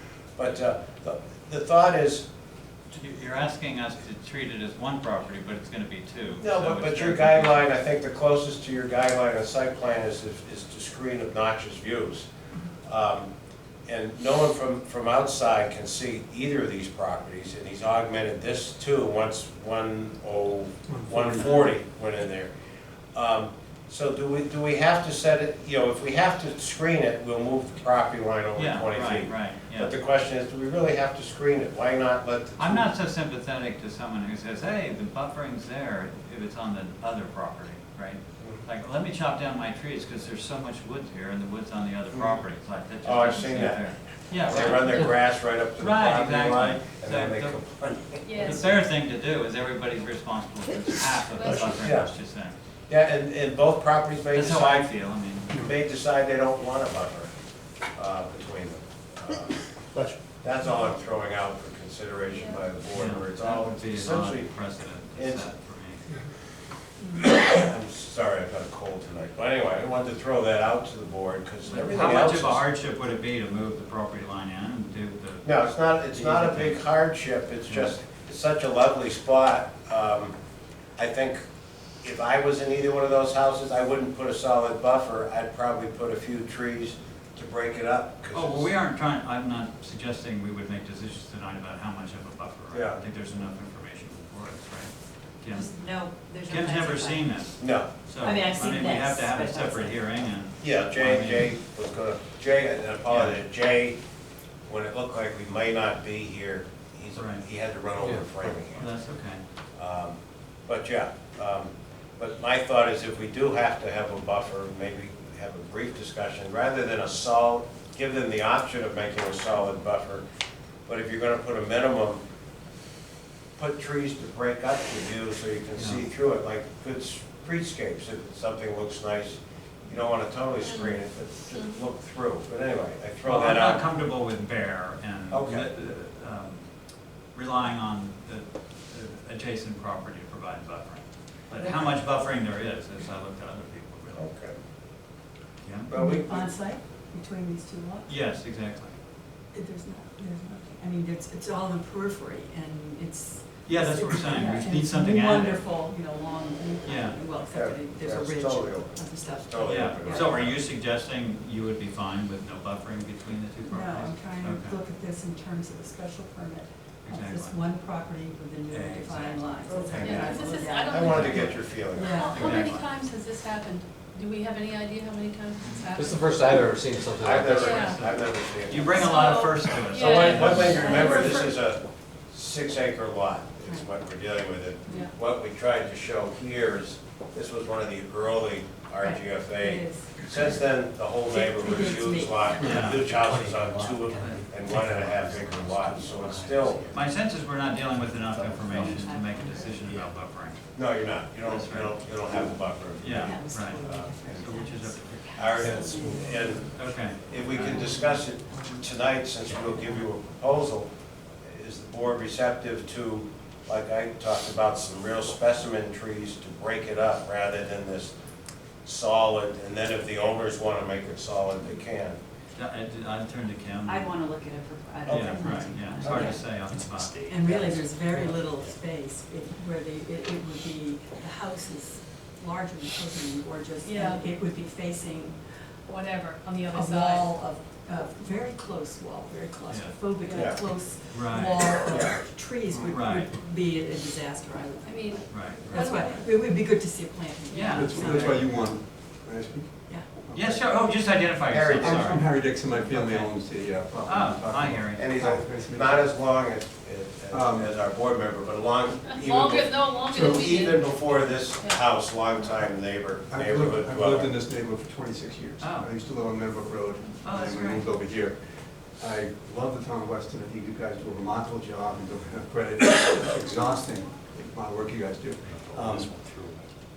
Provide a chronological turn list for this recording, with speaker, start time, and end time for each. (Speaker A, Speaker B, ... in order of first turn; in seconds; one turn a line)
Speaker A: 0.4-2.2
Speaker B: 2.9-7.6
Speaker A: 6.4-12.3
Speaker A: 12.8-13.3
Speaker A: 13.9-22.5
Speaker C: 20.9-21.6
Speaker A: 23.1-32.9
Speaker B: 28.6-29.9
Speaker B: 32.6-47.6
Speaker A: 38.4-38.6
Speaker A: 43.0-43.8
Speaker A: 44.5-48.7
Speaker D: 48.3-48.6
Speaker B: 48.3-52.5
Speaker D: 51.3-51.9
Speaker A: 51.7-52.1
Speaker A: 52.9-54.9
Speaker B: 54.3-55.7
Speaker A: 55.5-57.3
Speaker A: 57.9-59.7
Speaker A: 60.4-64.6
Speaker D: 62.3-62.6
Speaker B: 62.9-66.0
Speaker A: 65.2-65.5
Speaker A: 67.2-72.7
Speaker B: 71.7-76.8
Speaker A: 75.5-80.3
Speaker A: 81.0-81.4
Speaker A: 82.0-88.7
Speaker B: 88.3-95.8
Speaker A: 92.7-93.0
Speaker E: 95.5-97.1
Speaker B: 96.5-101.5
Speaker A: 97.6-97.9
Speaker E: 98.2-99.9
Speaker A: 100.6-104.0
Speaker B: 103.1-103.4
Speaker A: 104.7-108.9
Speaker B: 107.2-107.4
Speaker F: 108.0-108.3
Speaker B: 108.7-109.4
Speaker A: 109.8-120.2
Speaker A: 120.9-122.2
Speaker A: 123.6-133.8
Speaker B: 125.8-126.0
Speaker D: 130.6-131.9
Speaker B: 133.2-136.6
Speaker A: 135.3-135.7
Speaker B: 137.3-144.3
Speaker A: 141.6-141.9
Speaker A: 144.1-144.6
Speaker B: 145.6-145.9
Speaker A: 145.9-146.5
Speaker E: 145.9-148.2
Speaker B: 148.1-148.9
Speaker E: 149.5-160.4
Speaker B: 153.7-155.7
Speaker B: 156.8-157.2
Speaker A: 157.5-160.6
Speaker B: 159.6-164.8
Speaker E: 163.7-172.6
Speaker B: 167.1-167.6
Speaker B: 168.7-170.2
Speaker A: 169.8-172.6
Speaker D: 169.9-176.4
Speaker B: 171.1-173.0
Speaker F: 175.9-177.8
Speaker A: 177.1-197.0
Speaker B: 177.4-181.1
Speaker D: 177.5-178.1
Speaker D: 178.9-181.6
Speaker E: 180.6-181.4
Speaker D: 184.9-185.1
Speaker E: 189.0-190.6
Speaker E: 191.3-192.8
Speaker B: 192.6-193.1
Speaker F: 192.8-197.2
Speaker B: 194.2-195.0
Speaker B: 196.9-200.8
Speaker F: 197.9-200.1
Speaker A: 200.8-204.6
Speaker B: 201.4-202.1
Speaker B: 203.0-205.3
Speaker E: 203.2-206.8
Speaker A: 205.3-210.9
Speaker C: 205.6-206.2
Speaker B: 206.7-207.9
Speaker A: 211.4-218.1
Speaker A: 218.8-222.2
Speaker B: 222.6-224.4
Speaker G: 223.9-226.1
Speaker A: 225.1-226.4
Speaker B: 225.1-227.6
Speaker E: 225.2-225.7
Speaker F: 226.7-227.8
Speaker E: 227.3-235.8
Speaker D: 233.8-234.3
Speaker D: 235.9-237.4
Speaker E: 236.7-248.5
Speaker B: 239.7-240.1
Speaker D: 240.2-240.7
Speaker B: 241.1-241.9
Speaker A: 241.9-242.9
Speaker B: 242.9-243.3
Speaker D: 244.8-246.3
Speaker B: 245.3-245.9
Speaker B: 247.5-248.5
Speaker C: 247.7-250.7
Speaker B: 250.3-255.1
Speaker A: 251.5-252.2
Speaker C: 251.8-256.2
Speaker A: 255.0-264.3
Speaker C: 257.3-257.8
Speaker D: 259.1-261.9
Speaker C: 263.3-268.4
Speaker B: 265.6-265.9
Speaker B: 267.2-267.9
Speaker C: 269.0-276.2
Speaker F: 275.5-276.7